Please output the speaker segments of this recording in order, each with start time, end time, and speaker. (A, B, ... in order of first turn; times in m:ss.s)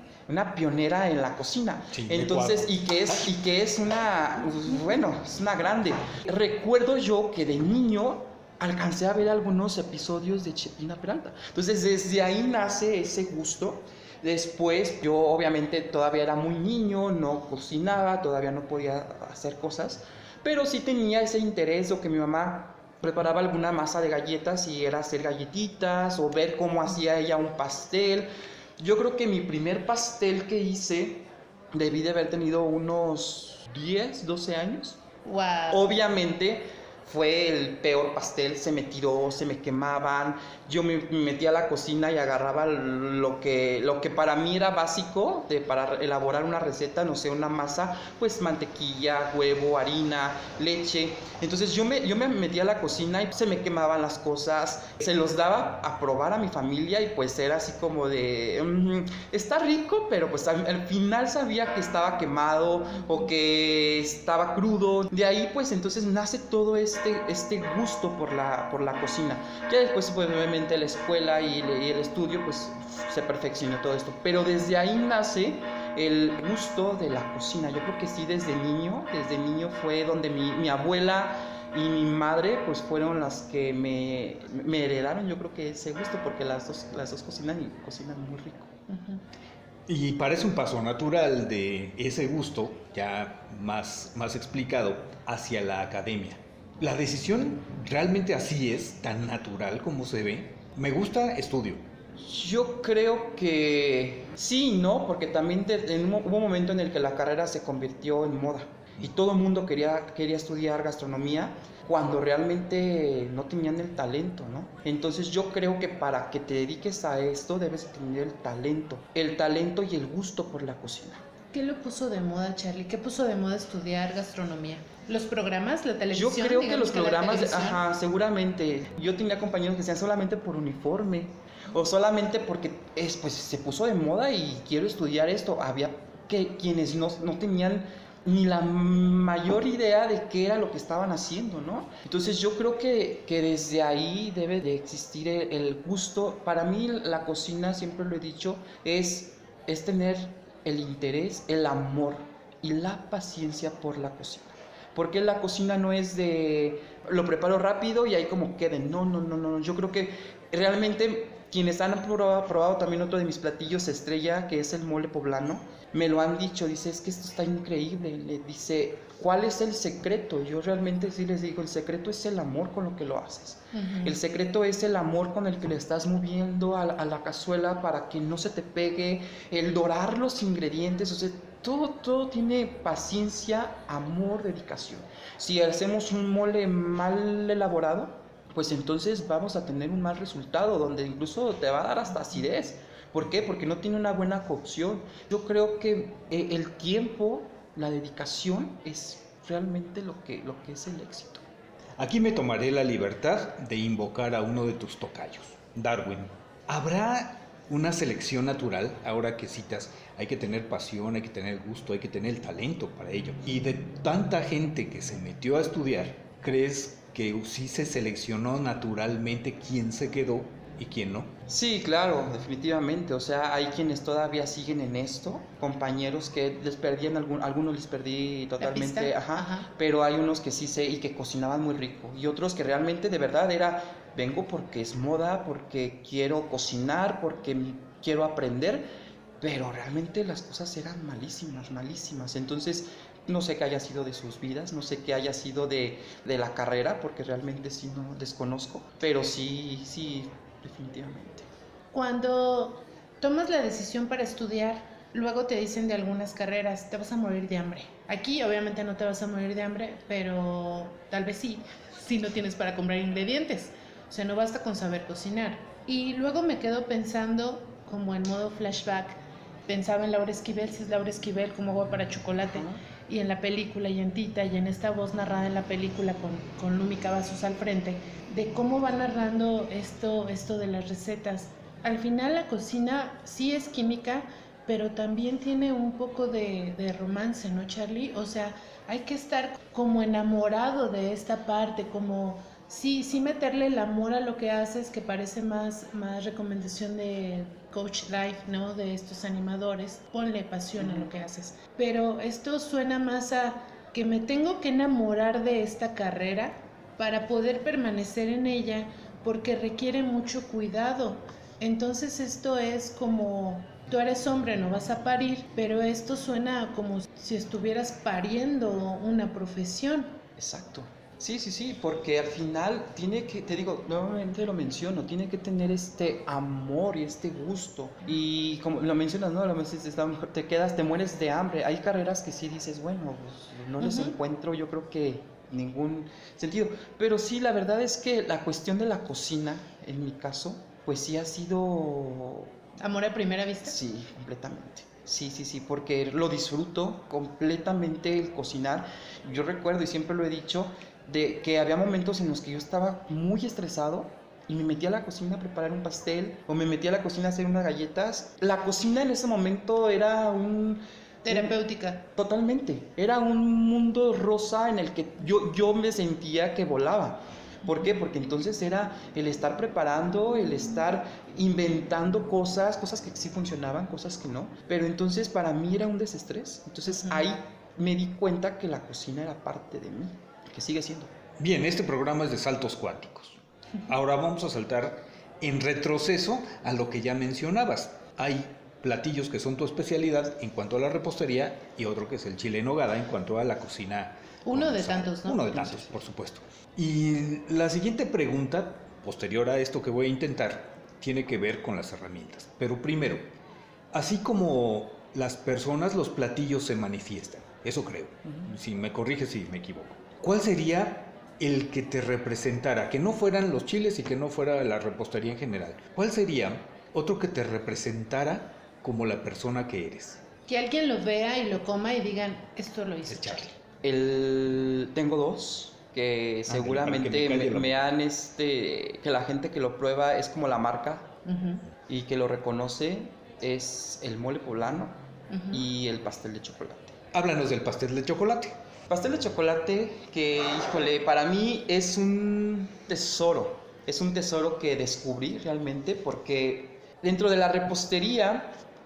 0:00.3-0:35.0 A
0:01.9-0:03.2 B
0:35.2-0:35.9 C
0:35.7-1:28.7 A
1:28.9-1:29.2 C
1:29.9-1:41.9 B
1:42.2-2:01.2 A
2:01.5-2:07.8 C
2:06.1-3:21.4 A
2:53.7-2:54.2 C
3:22.0-3:41.3 B
3:41.5-3:58.9 A
3:48.6-3:49.7 C
3:59.4-4:11.5 A
4:11.9-5:20.2 C
4:32.5-4:32.8 A
5:00.8-5:01.1 A
5:20.4-5:42.5 A
5:33.8-5:34.1 C
5:42.8-5:43.8 C
5:43.6-6:01.5 A
6:01.2-6:02.0 C
6:02.2-6:21.1 A
6:16.9-6:17.3 C
6:21.4-6:43.3 B
6:34.4-6:36.0 C
6:43.9-7:00.2 B
7:00.5-7:03.6 C
7:03.1-7:03.4 B
7:03.8-7:11.1 A
7:06.5-7:07.8 B
7:11.2-7:11.6 C
7:11.9-7:15.0 A
7:15.3-7:15.6 C
7:15.5-7:17.0 A
7:17.1-7:18.6 B
7:18.9-7:28.5 A